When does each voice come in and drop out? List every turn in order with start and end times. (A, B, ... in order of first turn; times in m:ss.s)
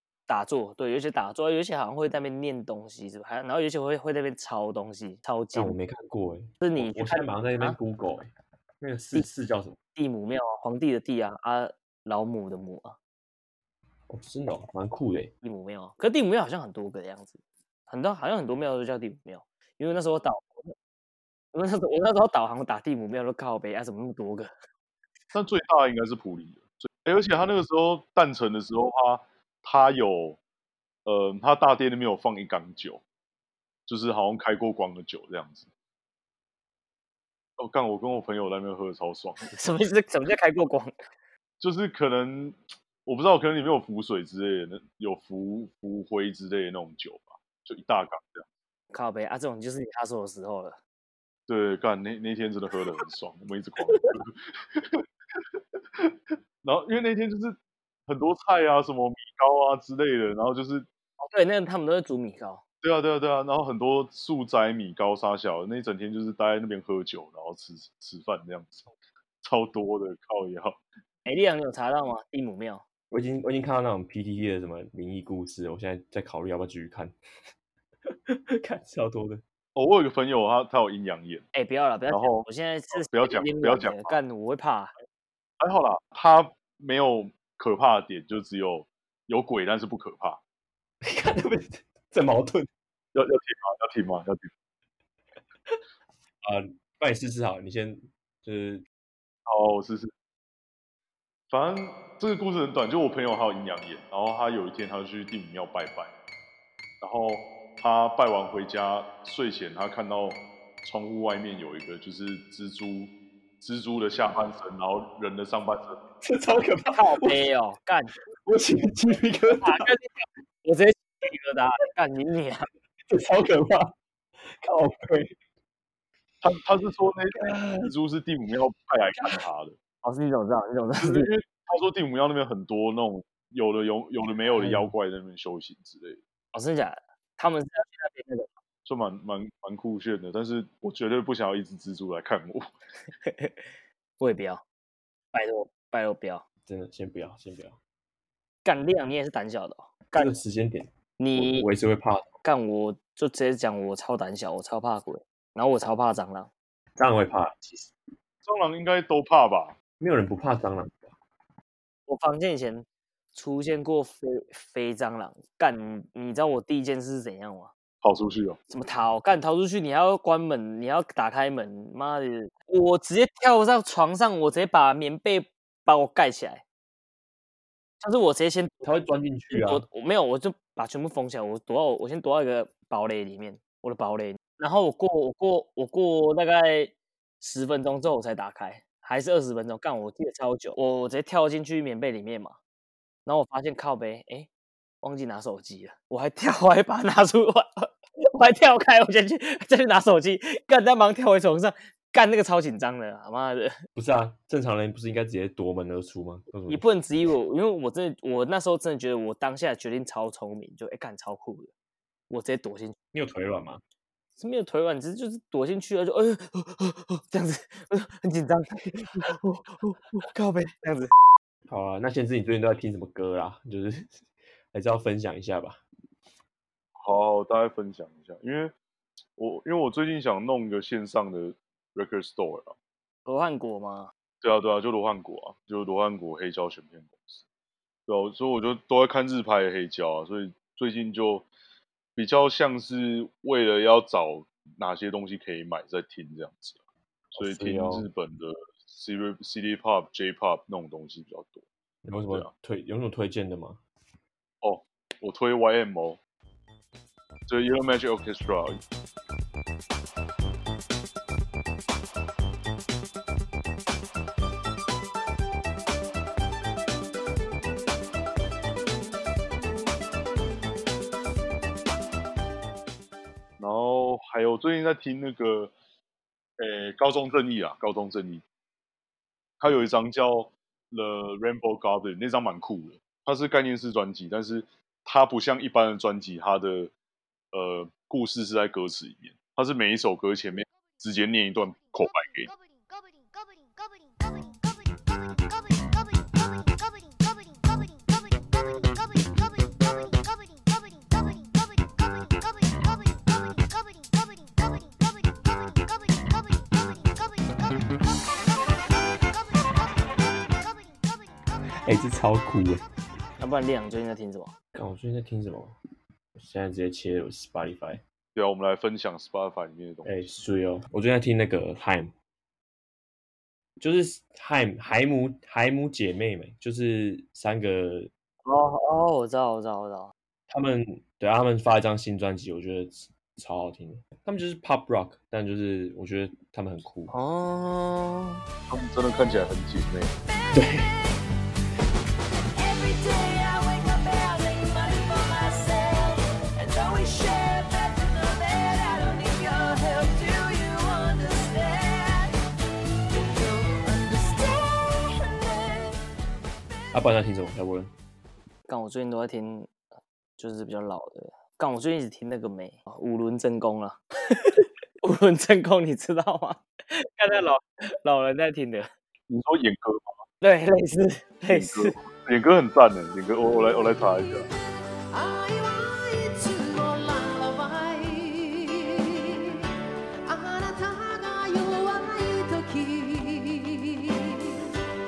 0:00.3-0:05.8 A
0:05.5-0:08.3 B
0:06.6-0:07.8 A
0:08.8-0:09.8 B
0:10.0-0:13.0 A
0:14.1-0:15.3 B
0:15.4-0:20.7 A
0:21.5-0:24.5 A
0:25.3-0:30.4 C
0:31.0-0:33.0 C
0:33.9-0:35.7 C
0:37.6-0:39.5 C
0:39.5-0:40.9 A
0:41.6-0:48.5 C
0:48.9-0:50.8 A
0:51.5-1:00.9 C
1:01.2-1:02.6 A
1:02.8-1:08.9 C
1:09.4-1:10.8 C
1:11.2-1:12.8 A
1:13.1-1:17.1 B
1:18.1-1:19.4 B
1:19.7-1:21.4 C
1:21.5-1:24.9 A
1:22.1-1:24.2 C
1:25.6-1:30.4 C
1:31.0-1:32.7 B
1:33.1-1:34.5 C
1:36.4-1:38.8 B
1:39.5-1:40.1 C
1:41.5-1:46.1 C
1:47.0-1:56.0 C
1:56.2-1:57.5 B
1:56.9-1:58.1 A
1:58.4-1:59.9 B
1:59.5-2:02.7 A
2:03.1-2:03.9 B
2:04.5-2:05.3 B
2:06.4-2:09.8 C
2:10.0-2:11.3 A
2:11.0-2:16.2 C
2:14.6-2:14.9 B
2:16.5-2:18.5 A
2:18.8-2:22.7 C
2:23.2-2:23.6 A
2:24.2-2:24.6 A
2:25.3-2:26.4 A
2:26.6-2:27.8 B
2:28.6-2:30.3 A
2:30.1-2:32.3 B
2:31.2-2:31.7 A
2:32.4-2:36.5 A
2:37.0-2:37.9 B
2:38.4-2:39.8 C
2:40.0-2:41.1 B
2:42.1-2:47.7 A
2:48.0-2:48.6 C
2:48.7-2:56.6 A
2:58.0-3:12.6 A
2:58.8-2:59.8 B
3:13.2-3:14.5 A
3:15.0-3:23.8 A
3:23.9-3:26.8 B
3:26.7-3:31.7 A
3:32.3-3:33.0 A
3:33.1-3:33.8 B
3:34.4-3:41.1 A
3:41.7-3:44.2 B
3:44.7-3:45.8 B
3:47.0-3:48.7 C
3:49.4-3:52.7 C
3:53.2-3:54.1 A
3:54.4-3:57.4 C
3:58.1-4:01.5 C
4:02.2-4:06.8 C
4:07.3-4:11.6 C
4:07.3-4:08.0 B
4:12.0-4:13.8 B
4:14.6-4:16.2 C
4:17.5-4:18.8 C
4:33.6-4:35.7 C
4:36.6-4:38.4 C
4:39.6-4:46.9 C
4:47.5-4:52.5 C
5:11.8-5:12.8 B
5:13.4-5:14.5 A
5:14.7-5:15.7 B
5:16.3-5:18.0 B
5:18.3-5:20.1 C
5:20.0-5:22.1 B
5:23.8-5:28.1 B
5:28.4-5:30.1 A
5:30.5-5:37.1 B
5:37.1-5:38.4 A
5:38.7-5:40.1 C
5:40.5-5:40.9 B
5:42.6-5:52.4 D
5:53.1-5:55.9 D
5:56.9-5:57.9 B
5:58.7-5:59.7 A
6:00.4-6:08.9 A
6:09.3-6:10.2 C
6:10.4-6:11.9 A
6:11.5-6:14.5 C
6:13.6-6:14.5 D
6:15.1-6:19.6 D
6:20.2-6:24.6 D